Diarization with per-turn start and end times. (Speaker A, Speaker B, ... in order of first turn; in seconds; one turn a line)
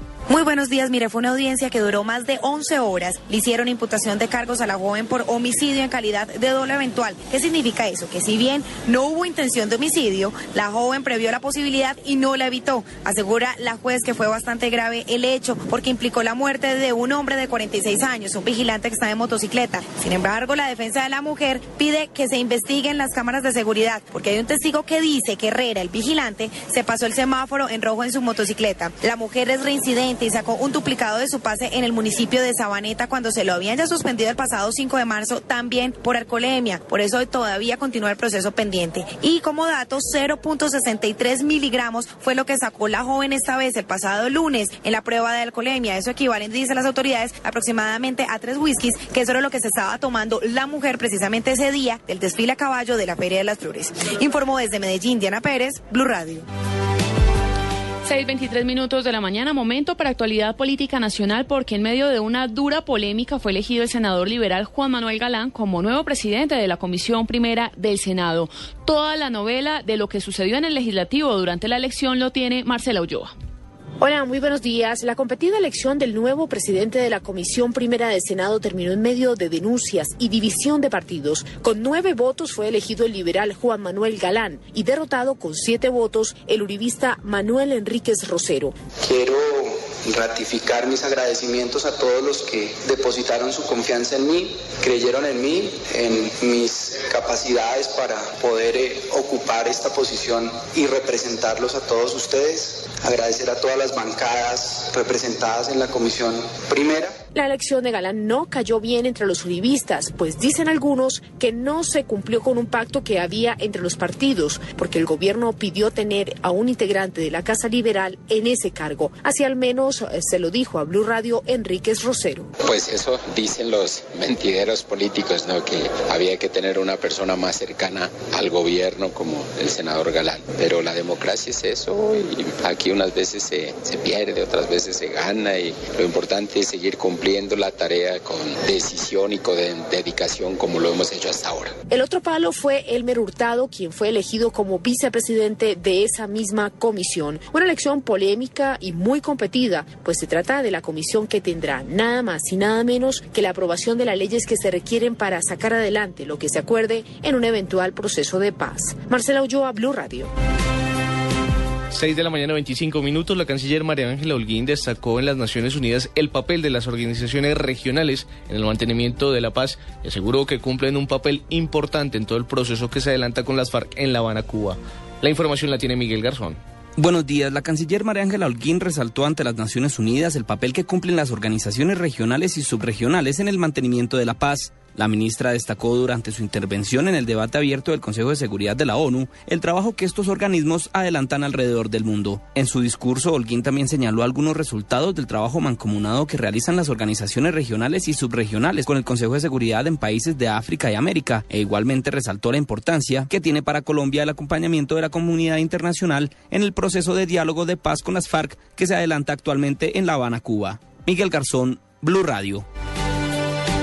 Speaker A: 0.3-56.5
Speaker B: 58.0-73.3
Speaker C: 74.0-88.8
Speaker D: 89.0-107.1
Speaker C: 107.3-122.5
Speaker E: 122.6-141.8
Speaker C: 141.9-160.3
Speaker F: 161.9-176.6
Speaker G: 177.0-212.7